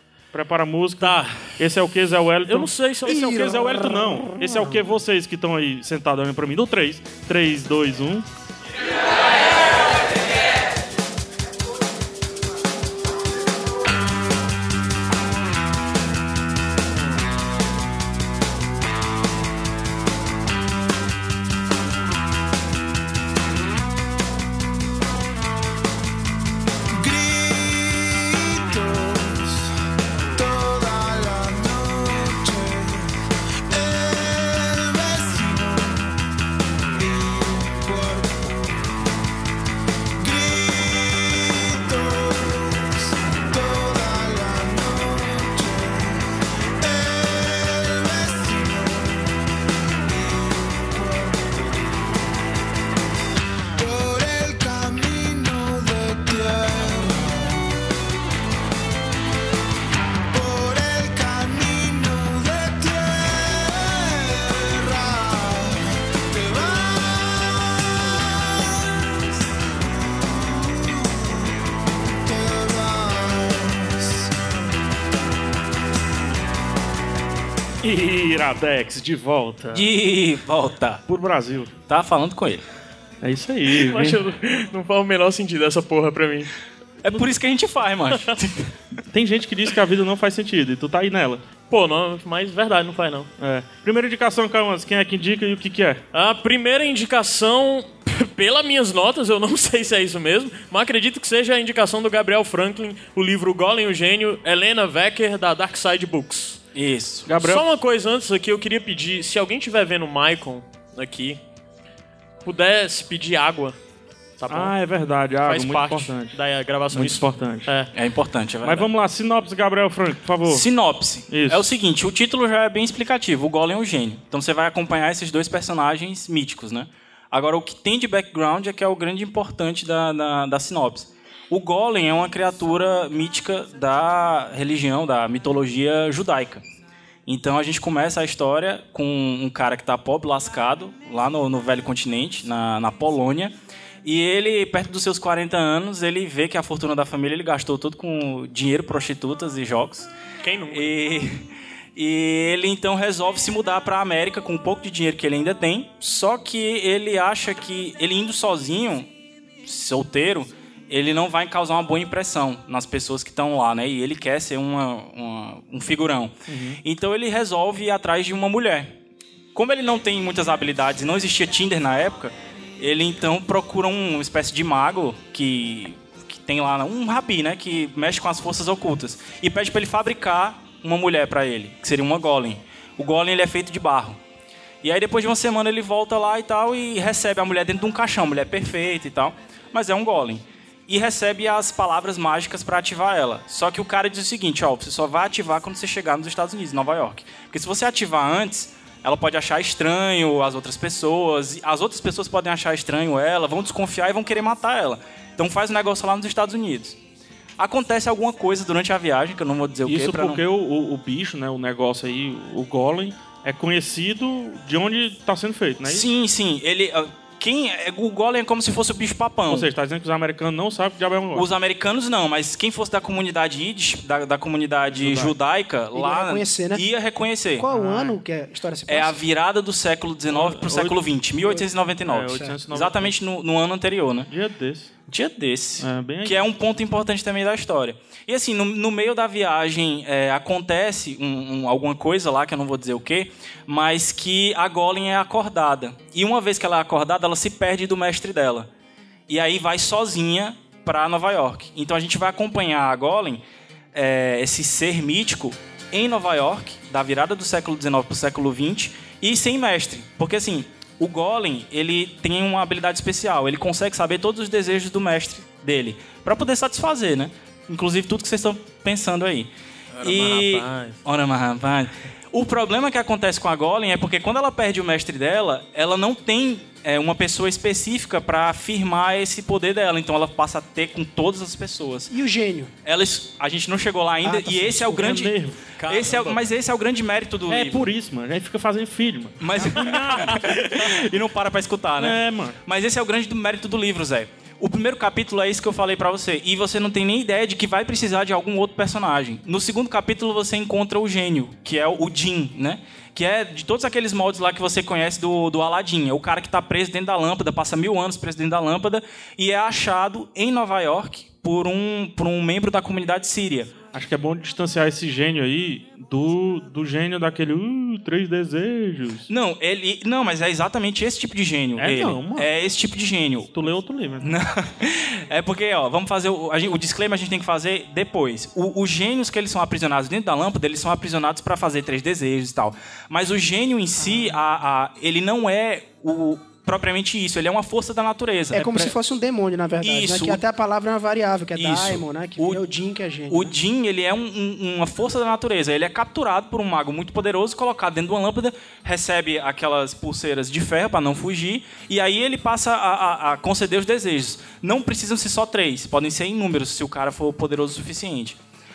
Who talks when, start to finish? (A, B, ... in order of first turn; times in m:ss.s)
0:00.3-0:08.3 A
0:01.0-0:01.5 B
0:02.4-0:03.9 B
0:26.9-0:29.7 C
0:30.3-0:33.1 C
0:33.7-0:36.2 C
0:36.9-0:38.8 C
0:40.2-0:46.3 C
0:46.8-0:49.4 C
0:50.0-0:52.2 C
0:53.8-0:57.8 C
1:00.3-1:14.3 C
1:17.8-1:19.9 A
1:19.7-1:21.0 D
1:21.1-1:21.7 A
1:21.9-1:22.6 D
1:23.2-1:24.2 A
1:23.7-1:26.5 B
1:27.0-1:28.7 D
1:29.1-1:31.4 A
1:31.7-1:33.3 B
1:33.4-1:36.0 A
1:36.1-1:46.6 B
1:46.7-1:47.3 D
1:47.2-1:47.6 A
1:47.3-1:51.4 B
1:52.4-1:53.8 B
1:54.4-1:54.7 B
1:54.5-1:56.4 A
1:55.4-1:57.9 B
1:56.9-1:57.7 A
1:57.9-1:58.9 D
1:58.6-2:00.7 A
2:00.5-2:16.6 D
2:01.3-2:01.7 A
2:17.3-2:30.1 D
2:30.4-2:30.9 B
2:30.7-2:39.1 D
2:39.6-2:48.9 D
2:46.5-2:46.8 A
2:49.5-3:04.2 D
3:04.8-3:27.0 D
3:27.6-3:30.4 D
3:29.8-3:36.1 A
3:35.8-3:39.7 D
3:39.5-3:41.5 A
3:41.3-3:47.7 D
3:44.9-3:45.3 A
3:45.9-3:46.8 E
3:47.6-3:49.2 E
3:47.7-3:48.2 A
3:48.9-3:54.3 D
3:50.3-3:53.1 A
3:54.3-3:54.9 A
3:55.1-4:08.7 D
3:55.8-3:56.4 A
4:09.3-4:13.4 D
4:13.9-4:29.5 D
4:30.0-4:31.0 B
4:30.0-4:42.1 D
4:42.1-4:42.7 E
4:42.8-4:47.8 D
4:44.2-4:46.3 A
4:44.5-4:45.2 E
4:45.8-4:46.3 B
4:47.5-4:50.7 A
4:49.4-5:13.7 D
4:52.0-4:52.6 A
5:13.9-5:19.3 A
5:19.3-5:23.5 D
5:21.8-5:22.5 A
5:23.5-5:24.4 A
5:24.2-5:38.9 D
5:38.5-5:43.5 E
5:39.8-5:40.4 D
5:41.6-5:42.6 D
5:43.3-5:58.4 D